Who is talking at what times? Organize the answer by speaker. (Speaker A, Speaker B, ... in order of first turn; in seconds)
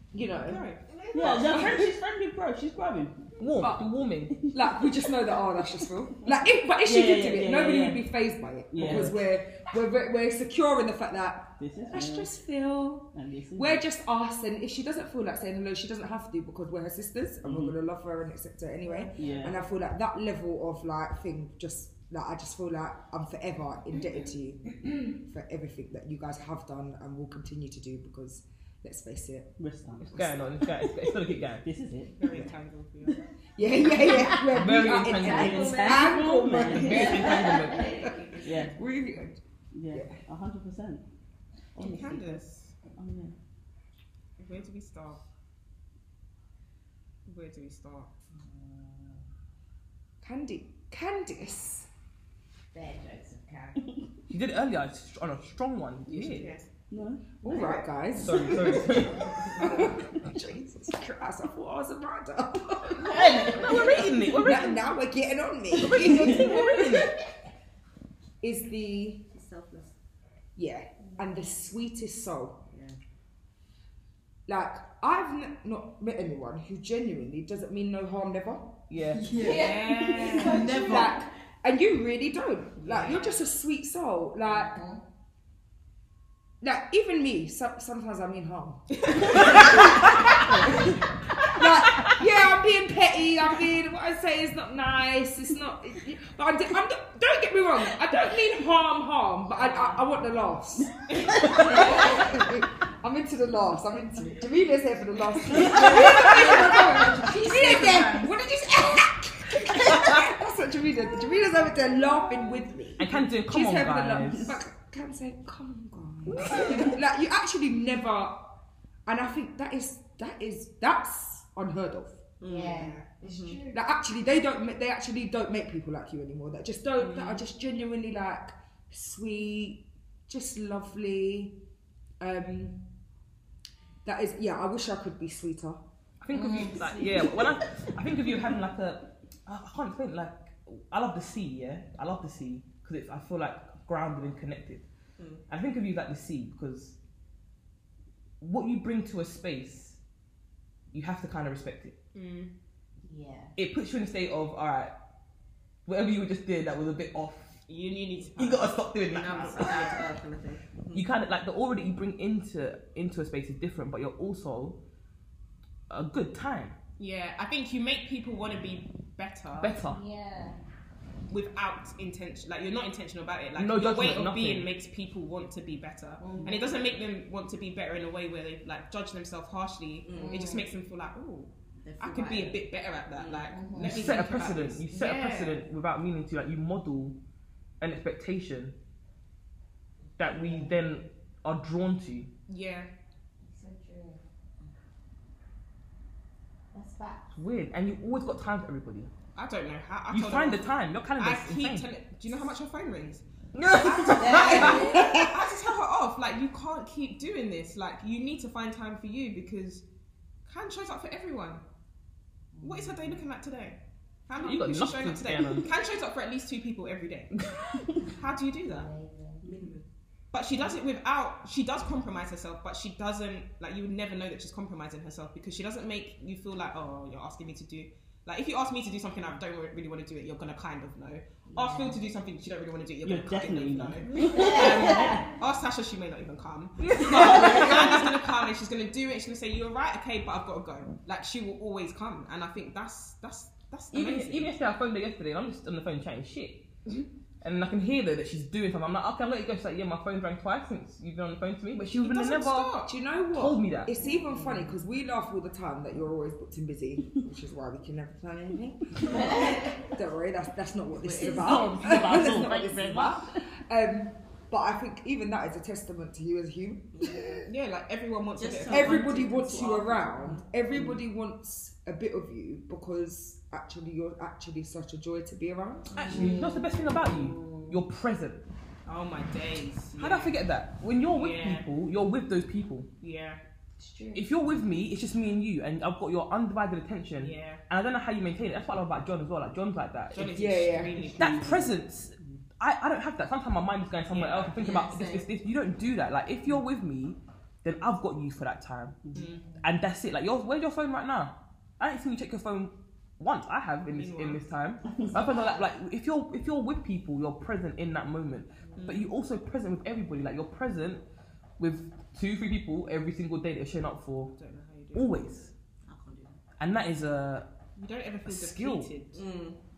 Speaker A: 0.1-0.7, 1.2-1.9, 3.6-3.9, 4.5-29.5, 30.1-30.8, 33.6-39.4, 39.9-40.2, 50.2-51.9, 57.4-66.7, 68.4-69.2, 70.5-72.6, 74.5-78.8, 80.8-84.8, 86.6-90.9, 91.5-118.4, 119.0-122.2, 123.7-131.5, 132.2-132.8, 134.0-135.8, 204.7-205.3, 252.8-267.4, 268.7-276.1, 290.3-291.1
Speaker B: 0.4-0.8, 32.2-33.2, 41.8-42.7, 44.4-45.2, 47.2-48.1, 56.1-56.6, 79.4-81.0, 82.8-83.4, 122.4-123.2, 127.0-127.4, 152.1-152.5, 157.7-159.9, 167.0-169.8, 171.3-185.6, 192.5-192.9, 199.3-209.8, 210.5-211.6, 212.6-217.3, 218.0-218.9, 220.3-244.5, 251.9-252.9, 267.5-269.7, 278.9-280.4, 281.1-281.7, 283.0-283.4, 287.2-287.6, 290.1-291.7, 294.1-294.6, 299.1-299.5, 303.9-304.5, 308.8-309.1, 314.4-315.1, 317.8-319.2
Speaker C: 0.9-1.6, 69.3-69.9, 72.7-73.0, 79.2-81.1, 122.4-123.6, 159.1-161.0, 176.2-176.7, 180.0-180.6, 181.8-182.6, 183.1-183.6, 204.4-204.6, 219.4-219.8, 259.1-259.6, 261.1-262.3, 268.4-270.4, 275.9-277.7, 294.6-295.3, 315.8-316.4, 319.1-319.6
Speaker D: 1.1-3.3, 4.3-5.1, 6.8-8.1, 8.7-9.2, 11.6-12.3, 13.1-13.8, 17.4-17.8, 19.1-19.5, 29.6-30.1, 31.6-32.2, 35.2-37.3, 38.4-38.7, 39.7-41.0, 41.8-42.4, 43.0-43.3, 56.9-57.2, 63.0-64.1, 66.0-66.5, 105.6-106.0, 233.0-235.3, 237.0-237.5, 261.1-263.3, 291.0-291.7
Speaker E: 3.4-4.4, 30.0-31.6, 34.5-35.9, 36.7-38.0, 54.3-56.5, 58.1-59.3, 63.2-64.9, 65.7-67.1, 78.9-79.3, 113.0-114.6, 136.2-144.8, 145.5-146.9, 148.4-150.0, 150.9-151.9, 153.6-154.9, 155.8-157.6, 158.3-160.0, 160.9-164.8, 165.9-166.7, 169.6-170.0, 173.6-174.7, 183.8-187.2, 187.8-188.7, 190.2-192.3, 197.3-199.1, 200.1-201.9, 203.5-204.8, 214.4-215.7, 236.8-238.1, 243.9-246.6, 247.4-252.8, 253.3-253.9, 275.9-278.4, 280.0-282.9, 284.1-290.4, 291.2-299.0, 299.6-311.0, 311.6-314.3, 314.9-315.5, 316.6-317.5, 318.2-318.9
Speaker F: 35.2-36.0, 36.9-38.5, 52.7-53.8, 79.3-81.1, 122.4-123.8, 136.3-137.3, 153.1-153.5, 169.8-170.6, 176.2-176.6, 180.2-180.6, 183.5-184.1, 190.2-190.8, 193.4-194.7, 196.7-197.3, 204.2-205.1, 212.5-213.2, 218.6-219.4, 231.5-232.0, 234.2-235.2, 259.2-259.6, 283.8-284.3